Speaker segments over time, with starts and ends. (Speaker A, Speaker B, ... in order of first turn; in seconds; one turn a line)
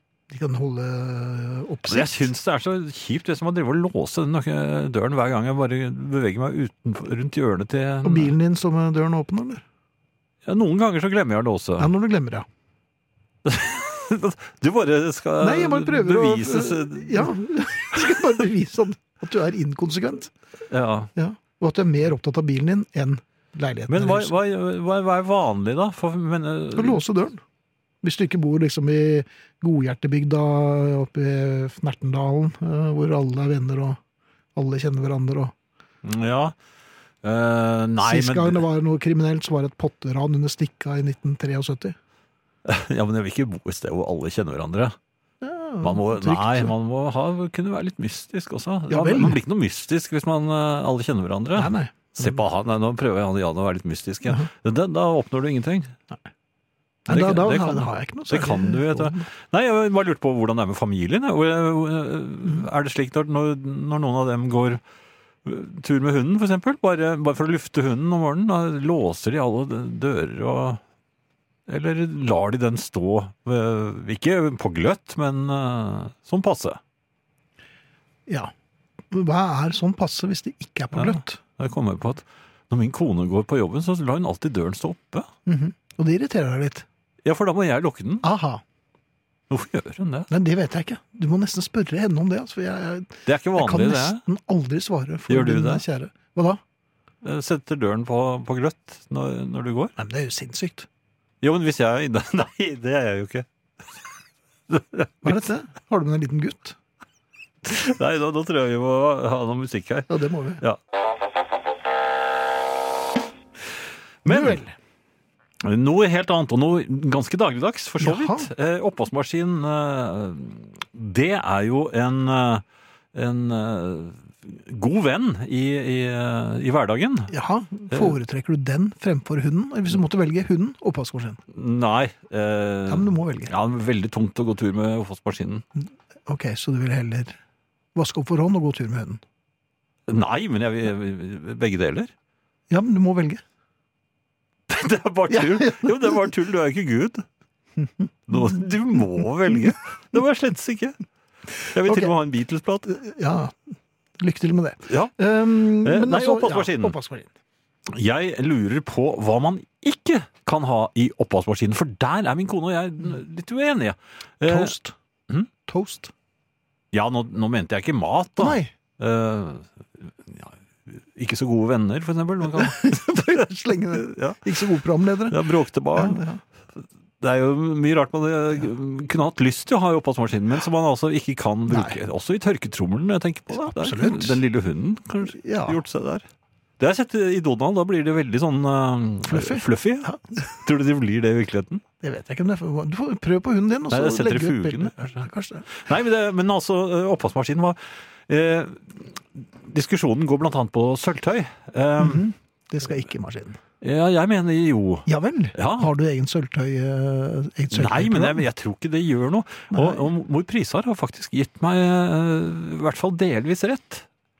Speaker A: 0.3-2.3
Speaker B: 1.9-8.3
Speaker A: 8.0-9.6
Speaker B: 10.4-11.9
Speaker A: 11.8-12.5
Speaker B: 13.4-17.3
Speaker A: 15.4-20.3
Speaker B: 20.7-21.1
Speaker A: 21.1-24.3
Speaker B: 23.9-27.0
Speaker A: 26.7-27.4
Speaker A: 28.0-34.0
Speaker A: 34.5-35.5
Speaker B: 36.0-36.5
Speaker B: 37.2-38.6
Speaker A: 38.0-42.0
Speaker B: 42.6-45.0
Speaker A: 45.4-46.7
Speaker B: 45.8-56.0
Speaker A: 48.9-49.4
Speaker A: 51.5-52.4
Speaker A: 57.0-59.2
Speaker B: 57.1-64.8
Speaker B: 65.4-70.8
Speaker B: 71.7-76.8
Speaker A: 78.3-78.5
Speaker A: 79.1-81.4
Speaker B: 80.9-85.3
Speaker A: 85.5-86.8
Speaker B: 87.2-88.3
Speaker A: 88.2-88.6
Speaker B: 89.5-90.3
Speaker A: 90.3-96.6
Speaker B: 93.2-94.2
Speaker B: 95.3-95.8
Speaker B: 97.2-99.9
Speaker A: 100.0-100.9
Speaker B: 101.4-103.5
Speaker B: 104.7-105.4
Speaker A: 105.2-106.8
Speaker B: 107.6-110.8
Speaker A: 110.1-110.6
Speaker B: 114.2-114.6
Speaker A: 114.3-114.7
Speaker B: 115.6-122.6
Speaker A: 118.0-118.5
Speaker B: 123.1-127.3
Speaker A: 127.3-131.4
Speaker B: 127.9-128.2
Speaker B: 131.5-135.6
Speaker A: 132.9-133.5
Speaker A: 136.2-137.4
Speaker A: 137.9-139.2
Speaker B: 140.1-142.1
Speaker A: 142.7-143.4
Speaker B: 144.7-147.2
Speaker A: 145.3-146.1
Speaker A: 147.8-148.4
Speaker B: 148.3-151.0
Speaker B: 151.6-153.0
Speaker A: 151.8-152.1
Speaker A: 152.9-157.3
Speaker B: 154.9-156.9
Speaker B: 157.9-164.7
Speaker A: 164.4-164.9
Speaker A: 165.7-166.1
Speaker B: 166.9-174.6
Speaker A: 168.4-168.7
Speaker A: 172.4-176.4
Speaker B: 175.3-176.2
Speaker B: 177.2-186.2
Speaker A: 181.7-182.0
Speaker A: 183.5-184.4
Speaker A: 185.2-185.8
Speaker B: 186.8-191.8
Speaker A: 189.3-190.2
Speaker A: 192.0-195.7
Speaker B: 193.9-202.2
Speaker A: 202.0-203.6
Speaker B: 203.8-205.9
Speaker A: 205.1-208.4
Speaker B: 207.7-214.1
Speaker A: 209.7-210.1